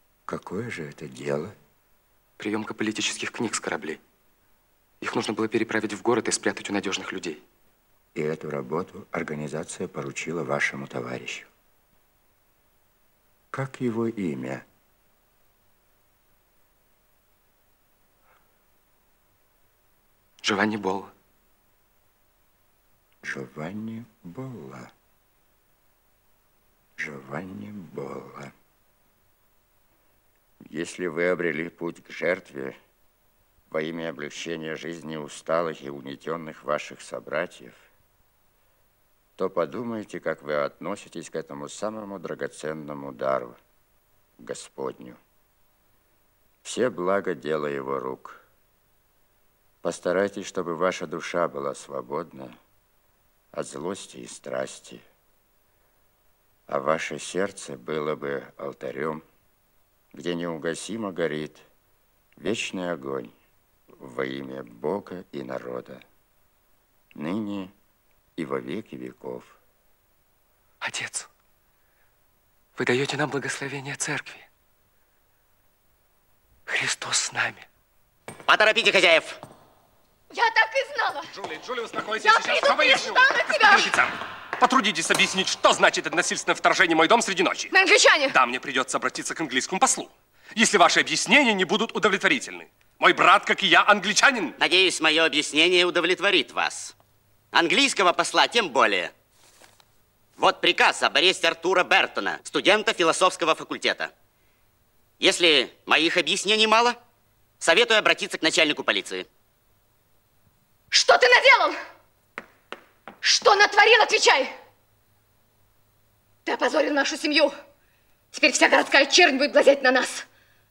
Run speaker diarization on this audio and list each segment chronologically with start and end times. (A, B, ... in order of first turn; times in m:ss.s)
0:00.3-0:01.6 A
0:02.4-0:04.0 B
0:05.0-0:07.4 B
0:08.1-0:11.5 A
0:13.5-0:14.6 A
0:20.4-0:21.1 B
0:23.2-0:24.9 A
0:27.0-0:28.5 A
0:30.6-0:32.8 A
0:33.7-0:37.9 A
0:39.4-0:43.6 A
0:44.4-0:45.2 A
0:46.6-0:48.4 A
0:49.8-0:52.6 A
0:53.5-0:55.0 A
0:56.7-0:59.2 A
1:00.1-1:01.6 A
1:02.4-1:03.3 A
1:03.9-1:06.0 A
1:07.1-1:07.7 A
1:08.4-1:09.6 A
1:10.8-1:11.3 B
1:12.8-1:14.5 B
1:16.7-1:17.6 B
1:18.5-1:19.4 C
1:20.3-1:21.3 D
1:21.4-1:27.7 E
1:22.1-1:23.9 D
1:27.7-1:28.4 D
1:28.3-1:34.6 E
1:34.6-1:36.9 C
1:37.5-1:39.1 C
1:40.4-1:44.1 C
1:45.2-1:47.0 C
1:47.6-1:49.2 C
1:50.9-1:51.8 D
1:53.2-1:54.5 D
1:56.4-1:57.5 D
1:58.3-2:00.2 D